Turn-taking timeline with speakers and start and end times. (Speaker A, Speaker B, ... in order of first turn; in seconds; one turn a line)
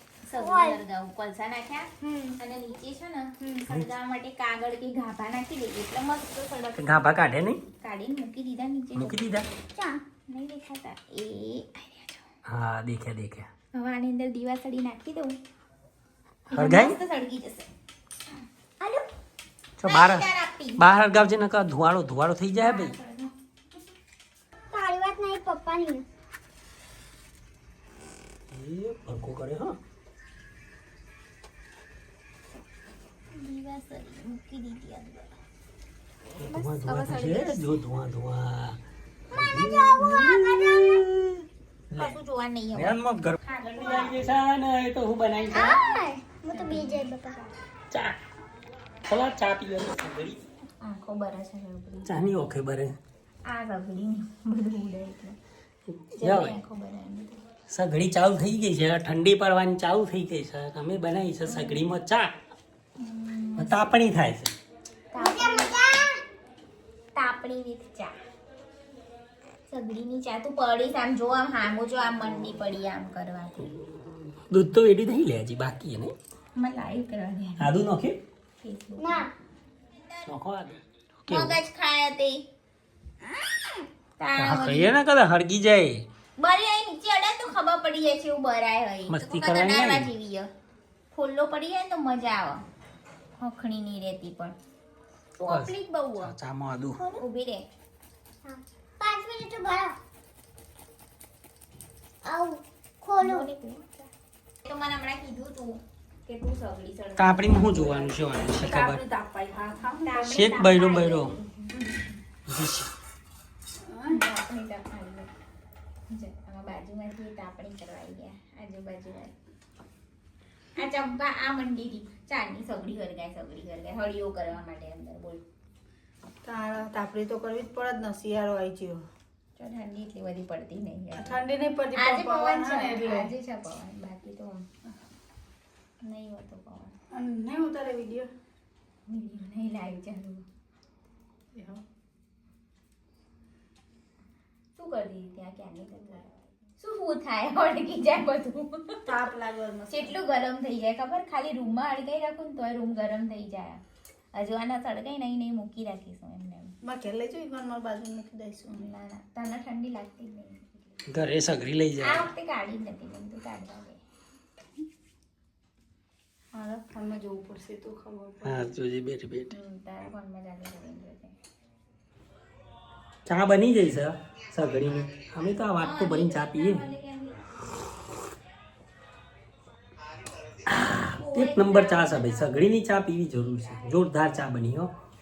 Speaker A: 0.2-6.9
Speaker B: 0.3-0.8
Speaker B: 2.0-2.3
Speaker C: 3.6-3.9
Speaker C: 6.8-7.6
Speaker A: 7.8-9.3
Speaker C: 8.9-9.5
Speaker B: 9.7-10.0
Speaker A: 10.3-12.3
Speaker C: 12.4-13.5
Speaker A: 13.7-15.4
Speaker A: 16.5-17.7
Speaker C: 16.5-16.9
Speaker C: 19.8-22.9
Speaker A: 19.8-20.8
Speaker A: 22.6-23.3
Speaker B: 24.7-26.0
Speaker C: 28.5-29.8
Speaker A: 33.3-35.3
Speaker C: 36.4-38.8
Speaker A: 36.5-37.8
Speaker B: 39.3-40.9
Speaker C: 39.3-41.4
Speaker C: 41.9-42.1
Speaker A: 42.0-44.2
Speaker C: 42.7-45.8
Speaker A: 45.5-47.1
Speaker B: 45.5-47.4
Speaker C: 47.9-48.2
Speaker C: 49.0-50.4
Speaker A: 50.8-52.2
Speaker C: 52.0-53.0
Speaker A: 53.4-55.4
Speaker C: 55.9-56.5
Speaker A: 56.2-57.4
Speaker C: 57.7-62.3
Speaker A: 61.5-61.9
Speaker A: 63.0-63.9
Speaker C: 63.6-64.5
Speaker A: 65.1-65.9
Speaker B: 65.2-66.2
Speaker A: 67.2-68.2
Speaker A: 69.7-73.7
Speaker C: 74.5-76.1
Speaker A: 76.5-77.7
Speaker C: 77.6-78.2
Speaker A: 78.6-79.3
Speaker B: 79.0-79.3
Speaker A: 80.0-80.3
Speaker C: 80.2-81.6
Speaker A: 81.3-82.5
Speaker A: 84.2-84.9
Speaker C: 84.4-86.0
Speaker A: 86.4-90.5
Speaker C: 89.1-90.1
Speaker A: 91.1-92.6
Speaker A: 93.4-94.5
Speaker A: 95.4-96.3
Speaker C: 95.5-97.0
Speaker B: 97.0-97.2
Speaker A: 97.2-97.7
Speaker B: 98.4-100.0
Speaker B: 102.2-103.5
Speaker A: 103.2-104.1
Speaker A: 104.6-108.2
Speaker C: 107.2-109.0
Speaker D: 108.4-110.2
Speaker A: 110.0-112.2
Speaker C: 110.2-111.3
Speaker C: 112.5-112.9
Speaker D: 113.8-114.2
Speaker A: 114.1-115.3
Speaker A: 116.1-119.3
Speaker A: 120.8-125.4
Speaker D: 126.4-129.0
Speaker A: 129.6-131.4
Speaker D: 131.2-133.3
Speaker A: 131.9-134.7
Speaker A: 136.0-137.0
Speaker D: 137.1-138.3
Speaker A: 139.1-140.4
Speaker D: 141.5-141.8
Speaker A: 144.8-149.0
Speaker D: 149.1-150.2
Speaker A: 149.9-153.8
Speaker A: 154.3-156.8
Speaker D: 156.8-158.9
Speaker A: 158.7-161.0
Speaker C: 161.1-162.2
Speaker A: 162.0-164.0
Speaker D: 166.5-168.7
Speaker C: 168.4-169.5
Speaker A: 169.5-171.3
Speaker C: 173.2-176.8
Speaker A: 175.8-177.4
Speaker C: 180.7-184.9
Speaker A: 181.1-182.6
Speaker A: 183.4-184.0